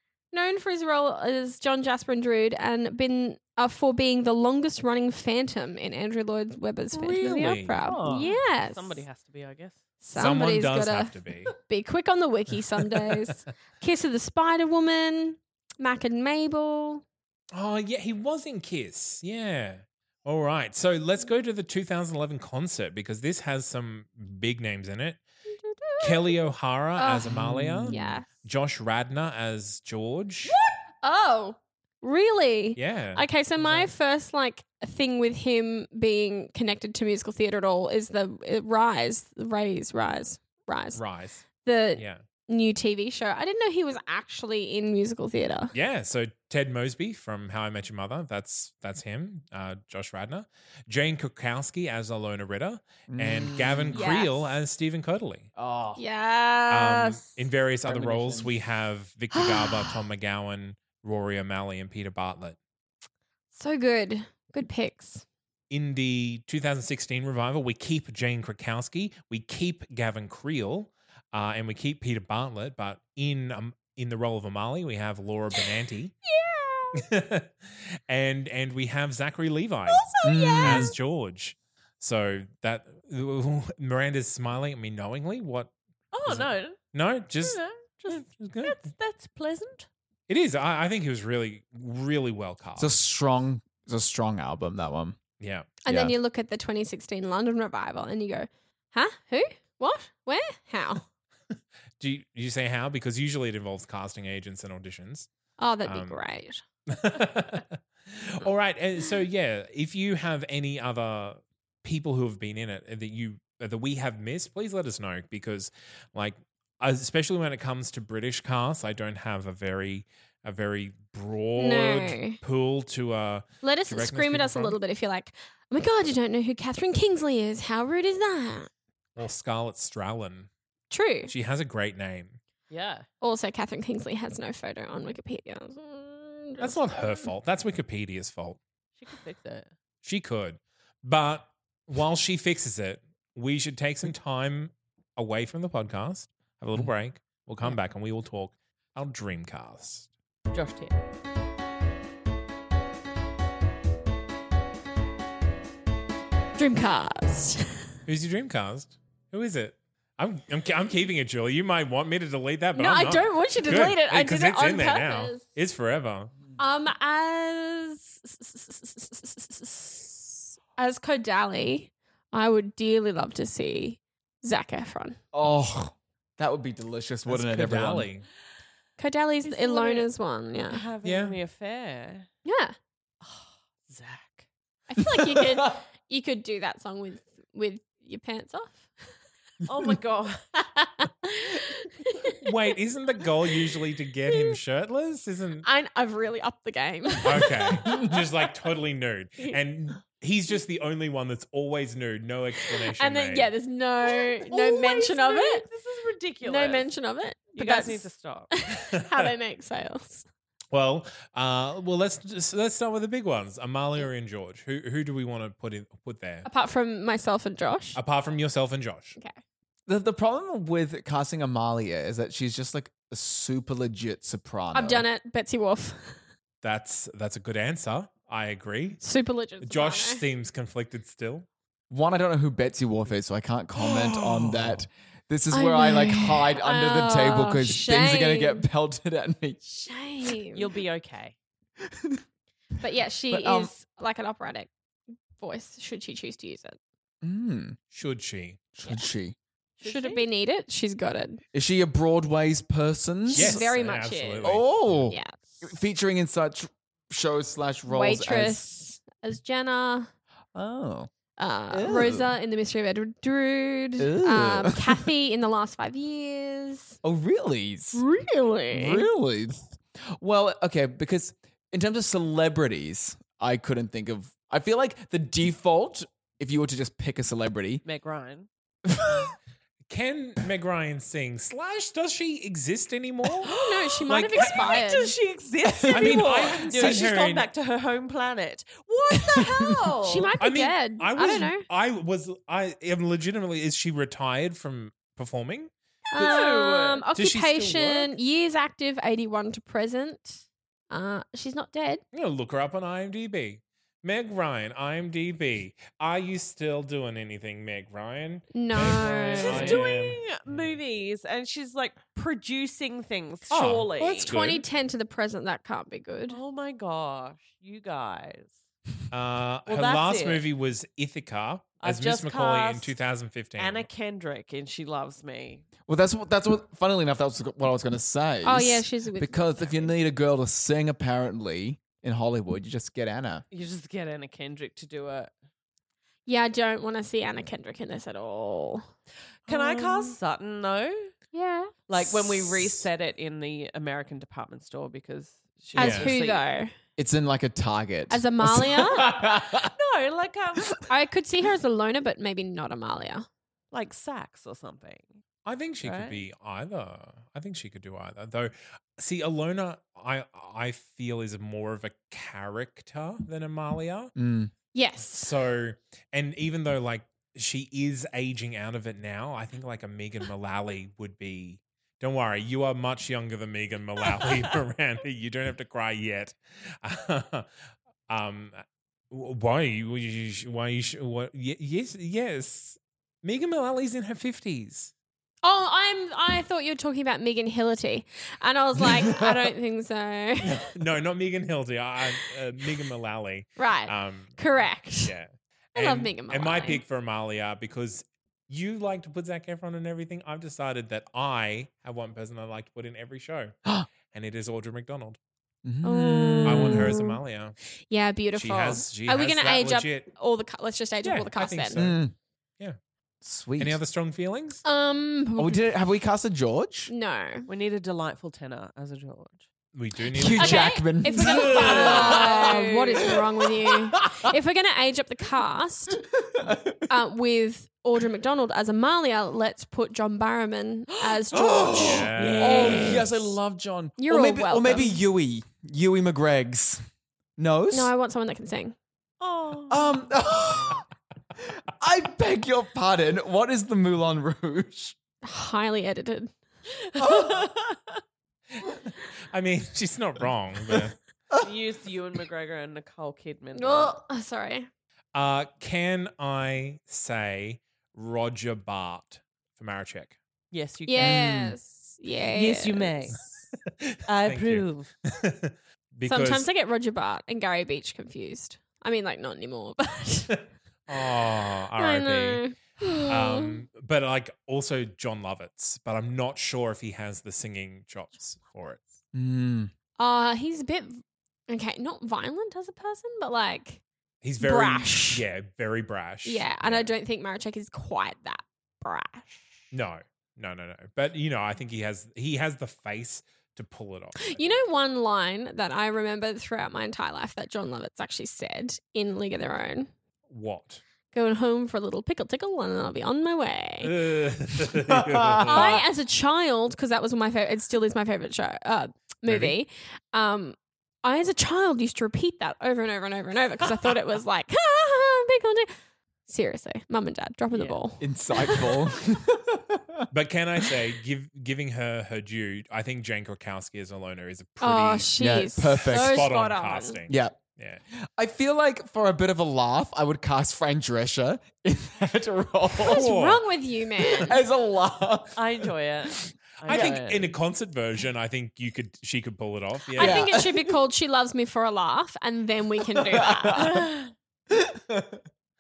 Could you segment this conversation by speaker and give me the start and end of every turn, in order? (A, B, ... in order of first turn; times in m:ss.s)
0:00.3-0:09.0 A
0:06.9-0:07.8 B
0:07.8-0:09.8 C
0:10.0-0:17.0 A
0:10.1-0:11.5 B
0:17.5-0:25.2 B
0:25.6-0:26.3 A
0:26.0-0:30.6 B
0:27.0-0:28.3 A
0:27.3-0:28.1 D
0:30.4-0:41.0 A
0:32.8-0:33.9 B
0:40.9-0:42.2 B
0:41.6-0:45.7 A
0:45.7-0:55.5 B
0:53.1-0:54.1 D
0:53.9-0:54.6 A
0:55.6-0:56.0 D
0:56.0-0:57.2 A
0:56.7-1:02.6 B
0:57.8-0:58.5 D
0:59.3-1:00.0 A
1:03.5-1:05.2 A
1:05.7-1:16.1 B
1:16.2-1:17.0 A
1:17.0-1:20.0 B
1:19.9-1:20.9 A
1:20.2-1:20.9 D
1:20.6-1:25.7 B
1:26.1-1:26.8 C
1:26.2-1:28.8 B
1:27.4-1:29.9 C
1:30.3-1:32.9 B
1:32.8-1:35.2 D
1:35.4-1:35.7 B
1:35.8-1:41.0 A
1:35.9-1:36.1 D
1:42.0-1:45.3 B
1:45.6-1:46.6 A
1:45.8-1:46.2 B
1:46.9-2:04.8 B
2:01.6-2:02.4 A
2:03.6-2:08.7 A
2:09.2-2:10.5 B
2:10.9-2:11.3 A
2:11.3-2:12.4 B
2:12.7-2:13.0 C
2:13.2-2:17.3 A
2:16.6-2:18.6 B
2:19.0-2:19.7 C
2:20.0-2:30.1 B
2:30.5-2:31.0 C
2:36.6-2:37.9 A
2:38.0-2:46.3 B
2:42.8-2:45.4 A
2:46.6-2:55.2 A
2:55.3-2:58.1 D
2:57.2-2:58.3 B
2:59.0-3:00.8 A
2:59.4-3:00.1 C
3:00.7-3:02.3 C
3:01.0-3:01.4 B
3:02.4-3:02.7 A
3:03.2-3:04.4 C
3:04.9-3:08.9 A
3:05.0-3:05.7 D
3:09.6-3:10.4 C
3:10.6-3:12.4 A
3:12.4-3:15.6 B
3:14.3-3:14.6 A
3:15.6-3:18.2 A
3:17.2-3:23.5 B
3:22.7-3:25.6 A
3:24.2-3:26.9 C
3:26.4-3:30.2 A
3:27.6-3:28.5 C
3:28.9-3:29.3 B
3:30.7-3:36.5 B
3:36.4-3:38.0 A
3:37.9-3:39.2 B
3:39.9-3:45.0 D
3:44.7-3:46.2 A
3:46.6-3:49.0 B
3:49.0-3:50.2 A
3:49.6-3:51.5 B
3:51.9-3:59.6 D
3:54.4-3:54.8 B
3:55.5-3:58.6 A
3:59.6-4:00.7 A
4:00.5-4:01.4 C
4:01.8-4:02.2 D
4:02.8-4:04.7 A
4:03.3-4:03.7 D
4:05.4-4:06.8 A
4:07.2-4:07.8 D
4:07.9-4:08.6 B
4:08.7-4:09.4 D
4:09.8-4:10.2 C
4:09.8-4:11.4 A
4:11.5-4:13.7 D
4:13.3-4:15.3 A
4:13.3-4:15.0 B
4:14.4-4:18.6 D
4:17.9-4:20.1 A
4:20.5-4:21.1 D
4:21.4-4:27.0 A
4:21.7-4:22.4 D
4:24.0-4:25.1 D
4:27.0-4:28.0 D
4:27.9-4:29.0 A
4:28.7-4:37.8 D
4:37.8-4:38.5 C
4:38.9-4:39.3 D
4:39.9-4:43.5 B
4:43.4-4:50.3 C
4:43.5-4:45.2 A
4:44.1-4:44.6 B
4:45.6-4:47.0 D
4:45.9-4:47.5 B
4:50.0-4:51.6 A
4:50.4-4:55.7 B
4:56.1-5:02.0 A
4:56.1-4:57.0 C
4:57.2-4:58.1 B
5:02.1-5:10.8 B
5:08.5-5:09.8 A
5:09.4-5:14.3 C
5:13.5-5:14.6 B
5:14.2-5:16.4 A
5:16.3-5:18.5 C
5:19.1-5:23.9 B
5:19.7-5:20.4 C
5:21.8-5:22.9 C
5:23.6-5:25.6 C
5:25.9-5:33.4 D
5:28.4-5:29.9 A
5:33.5-5:35.3 C
5:36.2-5:38.9 A
5:39.5-5:41.1 C
5:41.3-5:41.7 A
5:41.9-5:46.4 C
5:42.0-5:42.8 D
5:45.7-5:46.7 A
5:45.8-5:46.1 B
5:47.0-5:49.7 D
5:48.1-5:49.1 A
5:49.6-5:50.7 C
5:50.9-5:53.3 A
5:53.7-5:55.2 C
5:55.4-6:04.1 B
5:55.8-5:56.2 C
6:04.2-6:04.5 D
6:04.7-6:05.3 A
6:05.0-6:17.5 B
6:18.1-6:24.9 B
6:25.4-6:30.6 A
6:28.8-6:29.5 D
6:30.4-6:43.5 B
6:33.6-6:35.1 A
6:35.8-6:36.8 A
6:44.1-6:45.2 B
6:45.6-6:47.0 D
6:45.8-6:47.2 A
6:46.4-6:47.6 B
6:47.9-6:51.8 A
6:48.4-6:50.1 B
6:51.0-6:52.0 B
6:51.8-6:52.1 D
6:53.2-6:53.8 D
6:53.6-6:54.6 B
6:54.6-6:55.6 A
6:55.4-6:56.9 D
6:56.9-6:57.5 A
6:57.5-6:59.4 C
6:59.7-7:02.2 B
7:00.1-7:04.2 D
7:00.3-7:06.0 A
7:01.4-7:03.1 C
7:06.1-7:06.9 D
7:06.9-7:13.0 A
7:11.1-7:16.8 D
7:11.7-7:13.1 B
7:12.2-7:13.0 C
7:14.0-7:15.0 A
7:17.4-7:17.9 D
7:17.7-7:18.8 A
7:19.2-7:20.1 C
7:19.7-7:20.8 D
7:21.4-7:25.0 D
7:25.2-7:26.3 A
7:26.9-7:28.0 C
7:27.0-7:27.5 D
7:28.6-7:31.0 B
7:31.4-7:33.9 C
7:33.5-7:34.7 A
7:35.1-7:40.2 B
7:40.5-7:41.2 C
7:40.9-7:43.1 A
7:41.0-7:41.6 D
7:42.3-7:43.2 C
7:43.8-7:46.5 B
7:44.1-7:44.9 C
7:46.0-7:50.4 A
7:50.9-7:52.4 B
7:51.8-7:53.6 A
7:53.1-7:59.0 B
7:59.1-7:59.7 D
8:00.0-8:03.8 A
8:04.2-8:06.9 B
8:04.4-8:05.2 A
8:06.2-8:09.6 A
8:09.7-8:14.6 B
8:14.2-8:19.9 A
8:20.3-8:20.8 B
8:21.1-8:24.1 A
8:23.8-8:25.8 B
8:24.7-8:25.8 D
8:25.5-8:35.7 A
8:29.2-8:29.6 B
8:36.3-8:38.8 A
8:37.5-8:37.8 C
8:38.0-8:40.1 D
8:40.1-8:45.1 B
8:44.6-8:47.0 A
8:45.2-8:46.3 D
8:45.7-8:47.8 B
8:47.1-8:47.4 D
8:47.9-8:53.1 D
8:52.8-8:53.4 B
8:52.8-8:54.4 A
8:54.0-8:55.6 D
8:55.4-8:57.3 C
8:56.6-9:00.3 B
8:56.7-8:57.0 D
9:00.0-9:00.8 D
9:00.0-9:03.8 A
9:02.8-9:03.8 D
9:03.6-9:04.1 C
9:04.5-9:05.2 D